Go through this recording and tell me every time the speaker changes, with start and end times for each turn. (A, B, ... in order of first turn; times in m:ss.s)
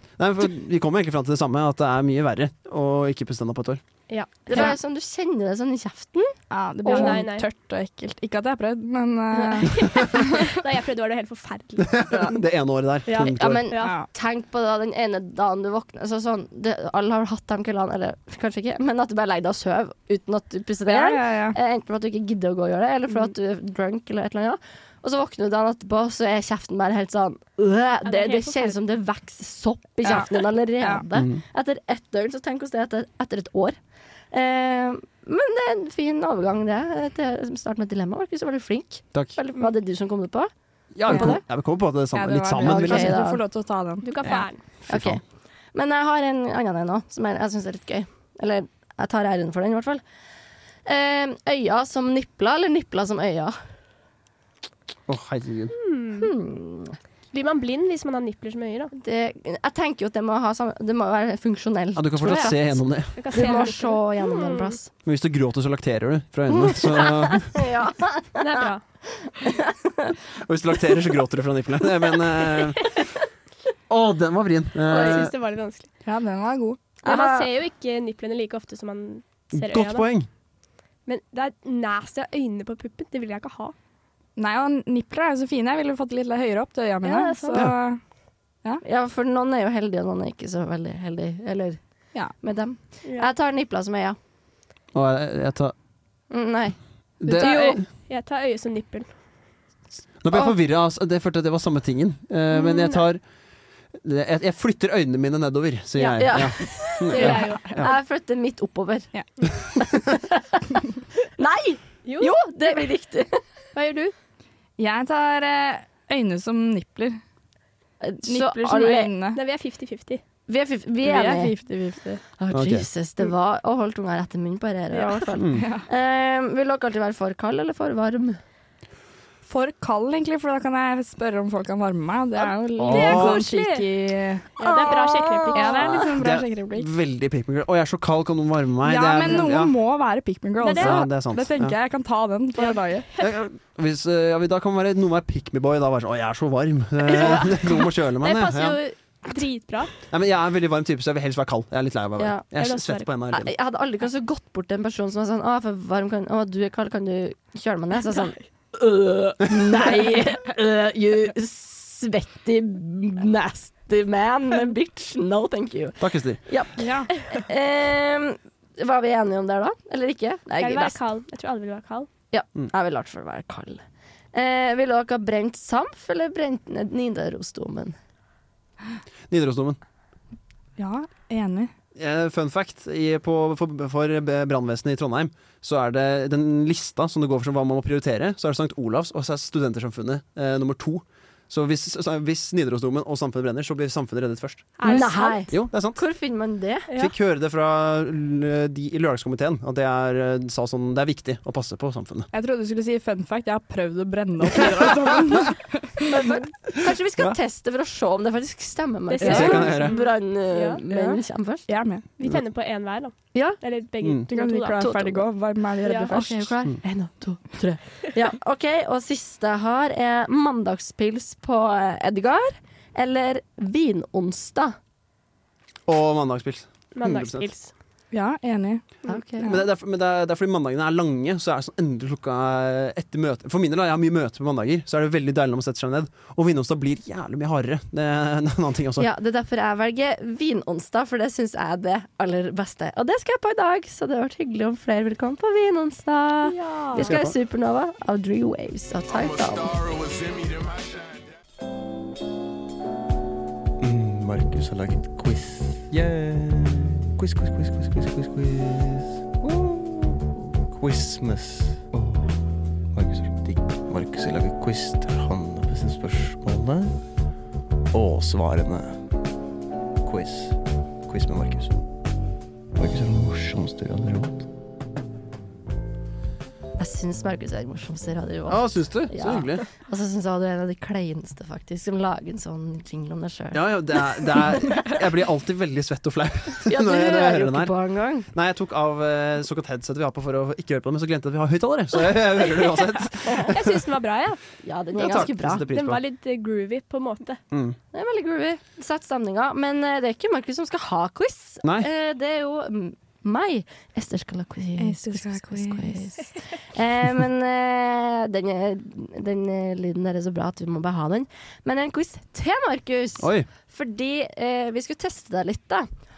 0:00.2-0:03.8 A
0:04.1-0:04.7 B
0:04.5-0:07.2 C
0:06.5-0:10.5 D
0:06.9-0:07.5 B
0:09.7-0:12.1 B
0:11.8-0:13.7 A
0:13.1-0:14.0 B
0:13.3-0:33.8 C
0:13.8-0:14.1 D
0:20.9-0:21.6 D
0:28.0-0:28.8 B
0:30.0-0:31.0 D
0:31.1-0:31.4 A
0:34.3-0:40.5 C
0:41.0-0:43.2 A
0:41.1-0:41.4 C
0:41.1-0:41.3 D
0:42.1-0:44.4 D
0:42.6-0:43.4 C
0:44.0-0:44.6 B
0:44.9-0:45.2 A
0:44.9-0:45.2 C
0:45.7-0:50.0 C
0:50.9-0:53.6 C
0:55.1-0:55.7 A
0:55.7-0:56.3 B
0:56.2-0:57.0 C
0:57.3-0:58.9 B
0:58.9-1:04.9 C
1:02.0-1:03.3 A
1:03.2-1:04.8 B
1:05.0-1:07.6 A
1:06.5-1:10.2 C
1:08.4-1:08.8 B
1:10.4-1:13.0 A
1:13.9-1:15.3 A
1:14.9-1:15.9 B
1:15.0-1:15.2 C
1:16.0-1:16.8 D
1:17.0-1:17.5 C
1:17.0-1:20.1 B
1:19.5-1:20.3 A
1:21.1-1:23.8 B
1:24.4-1:28.0 D
1:27.1-1:27.6 B
1:28.8-1:31.8 C
1:32.4-1:34.2 C
1:33.0-1:33.3 B
1:34.9-1:35.7 A
1:36.3-1:36.8 C
1:37.2-1:37.8 A
1:37.4-1:39.1 B
1:37.4-1:37.8 D
1:40.2-1:43.2 A
1:42.5-1:43.0 B
1:44.0-1:47.9 A
1:46.0-1:47.9 B
1:46.2-1:49.1 C
1:49.7-1:50.8 C
1:51.4-1:53.4 C
1:52.0-1:52.9 B
1:53.8-1:54.1 B
1:54.8-1:57.2 D
1:58.0-1:59.1 C
1:58.2-1:59.4 D
1:59.3-2:00.2 B
2:00.5-2:01.6 C
2:01.0-2:02.2 D
2:02.4-2:08.4 C
2:02.5-2:02.9 A
2:04.9-2:05.2 B
2:05.4-2:05.7 A
2:05.5-2:05.9 D
2:09.5-2:14.5 D
2:12.8-2:13.4 A
2:12.9-2:13.9 B
2:14.6-2:16.0 B
2:14.6-2:16.0 C
2:15.5-2:16.9 D
2:15.9-2:19.8 A
2:18.8-2:23.1 D
2:20.6-2:21.0 B
2:20.7-2:21.8 A
2:22.6-2:23.3 B
2:23.2-2:28.8 A
2:27.1-2:29.9 B
2:30.1-2:33.5 A
2:32.2-2:32.4 C
2:32.6-2:33.1 B
2:33.3-2:51.0 C
2:46.0-2:46.4 A
2:46.8-2:47.1 D
2:50.6-2:52.1 B
2:52.3-2:58.0 C
2:59.3-2:59.8 A
3:00.8-3:01.7 D
3:02.0-3:16.0 A
3:14.8-3:15.5 B
3:14.8-3:16.9 C
3:17.0-3:22.3 A
3:22.3-3:26.1 D
3:26.1-3:31.7 C
3:29.1-3:30.8 B
3:29.2-3:29.6 D
3:29.2-3:30.0 A
3:30.9-3:32.0 D
3:32.2-3:34.9 B
3:34.3-3:36.5 D
3:34.8-3:35.2 C
3:35.8-3:36.1 B
3:36.0-3:44.8 C
3:45.9-3:47.5 A
3:47.0-3:47.7 B
3:48.1-3:48.8 D
3:49.1-3:49.6 C
3:49.4-3:59.1 A
3:59.0-4:09.8 C
4:06.4-4:07.1 B
4:07.0-4:07.4 A
4:13.8-4:27.0 E
4:27.9-4:29.0 E
4:30.0-4:31.8 E
4:32.8-4:34.5 E
4:36.8-4:44.5 C
4:38.5-4:39.6 A
4:43.5-4:47.7 A
4:46.7-4:48.3 C
4:48.3-4:53.8 A
4:53.5-4:54.4 B
4:54.6-4:55.6 C
4:55.0-4:56.0 A
4:55.7-4:57.4 B
4:57.5-4:57.8 A
4:57.9-5:15.9 C
5:01.6-5:01.9 A
5:04.8-5:06.1 D
5:13.2-5:13.5 A